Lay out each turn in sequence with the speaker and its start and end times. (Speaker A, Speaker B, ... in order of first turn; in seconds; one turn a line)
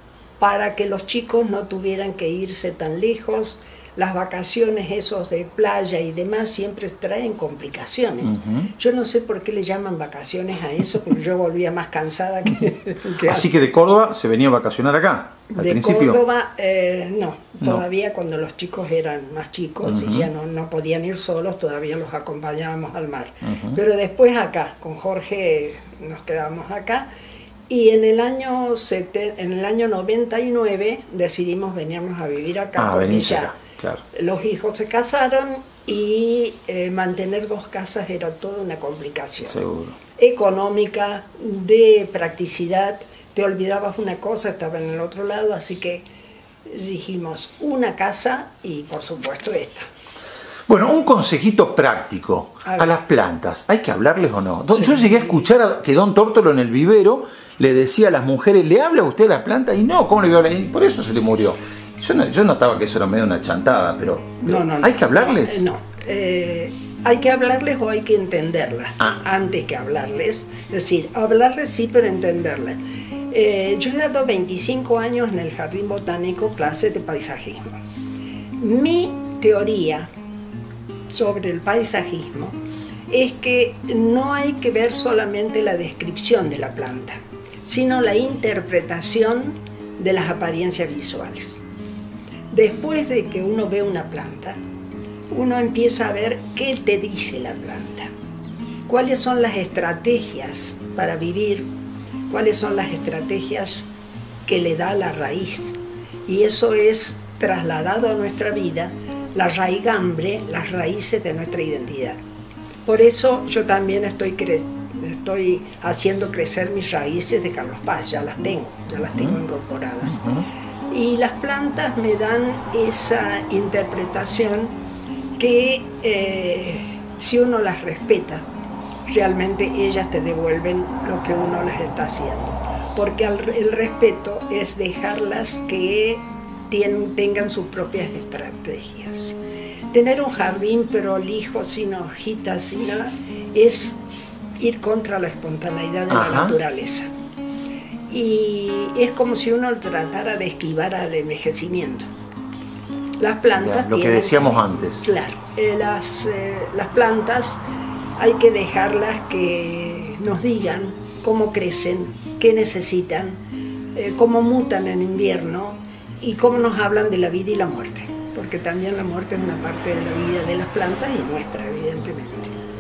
Speaker A: 0.4-13.5
Speaker B: 8.2-8.7
Speaker B: 13.2-16.2
Speaker A: 15.5-27.1
Speaker B: 19.8-20.3
Speaker B: 23.4-23.8
Speaker A: 27.7-33.6
Speaker B: 32.8-34.0
Speaker A: 34.1-39.6
Speaker B: 39.4-40.0
Speaker A: 40.2-46.1
Speaker A: 46.6-49.9
Speaker B: 50.7-65.7
Speaker A: 52.6-52.9
Speaker A: 54.7-55.4
Speaker A: 64.4-72.8
Speaker A: 73.3-77.8
Speaker A: 78.6-80.1
Speaker A: 81.1-82.6
Speaker A: 83.1-91.7
Speaker A: 92.5-94.6
Speaker A: 95.3-98.1
Speaker A: 98.9-101.7
Speaker A: 102.3-103.9
Speaker A: 104.5-112.2
Speaker A: 112.9-120.2
Speaker B: 119.0-119.4
Speaker B: 120.1-120.5
Speaker A: 120.9-124.7
Speaker A: 125.4-128.4
Speaker A: 129.1-139.4
Speaker A: 139.9-144.0
Speaker A: 144.6-147.1
Speaker B: 146.1-146.6
Speaker A: 148.1-152.1
Speaker A: 153.2-157.6
Speaker B: 153.6-155.1
Speaker A: 158.2-163.4
Speaker A: 163.9-172.5